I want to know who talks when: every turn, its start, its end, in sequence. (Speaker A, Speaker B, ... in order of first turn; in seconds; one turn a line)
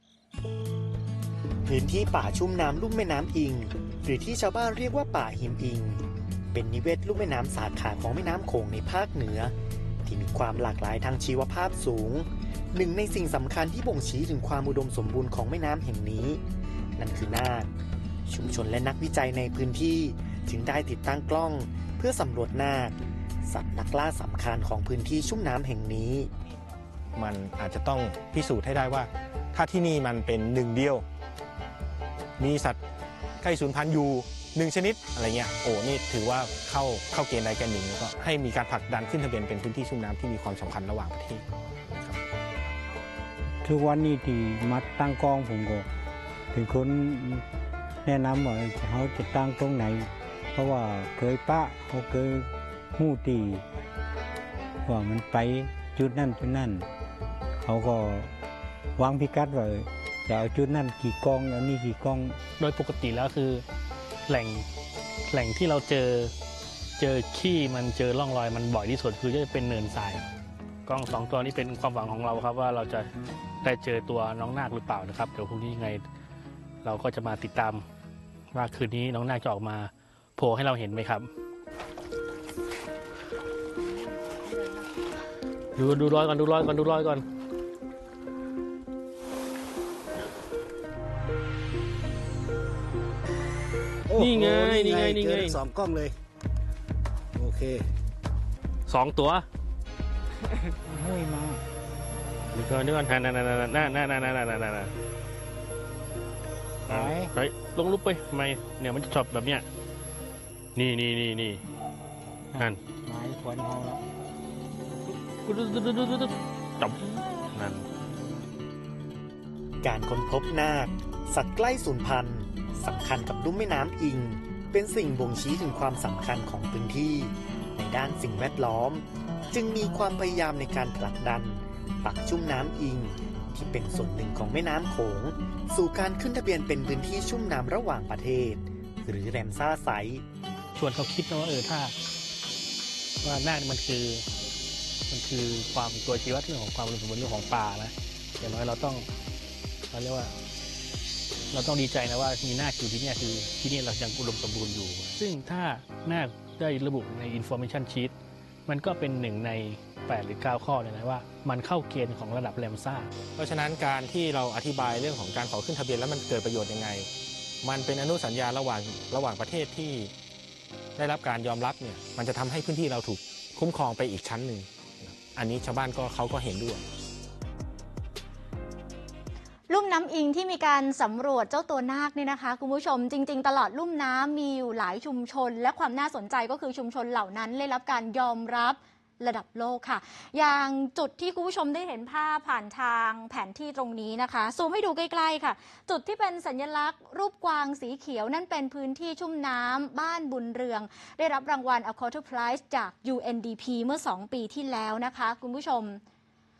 Speaker A: 1.6-9.5
Speaker A: 10.0-16.4
Speaker A: 17.0-17.7
Speaker A: 18.3-22.9
Speaker A: 23.5-26.3
Speaker B: 27.1-31.0
Speaker B: 32.4-32.8
Speaker B: 33.4-42.2
Speaker C: 43.6-45.9
Speaker C: 46.5-47.5
Speaker C: 48.0-53.6
Speaker C: 54.9-56.9
Speaker C: 57.6-58.3
Speaker C: 59.0-62.4
Speaker D: 62.6-63.6
Speaker D: 64.3-64.7
Speaker D: 65.3-66.3
Speaker D: 67.0-70.2
Speaker D: 70.8-73.1
Speaker D: 73.6-76.0
Speaker D: 76.8-77.8
Speaker D: 78.5-81.3
Speaker D: 85.8-87.2
Speaker E: 94.1-96.2
Speaker D: 94.1-95.6
Speaker E: 97.3-97.9
Speaker D: 98.9-99.5
Speaker C: 100.7-101.6
Speaker D: 102.5-104.9
Speaker C: 106.9-107.3
Speaker D: 106.9-109.7
Speaker D: 110.7-111.6
Speaker C: 112.5-114.0
Speaker D: 115.4-117.9
Speaker A: 119.8-140.2
Speaker D: 140.7-141.9
Speaker D: 143.2-144.2
Speaker D: 145.1-149.1
Speaker D: 149.9-150.3
Speaker D: 151.5-158.1
Speaker D: 158.7-163.1
Speaker B: 163.3-167.1
Speaker B: 167.6-170.1
Speaker B: 170.9-176.8
Speaker F: 179.7-206.0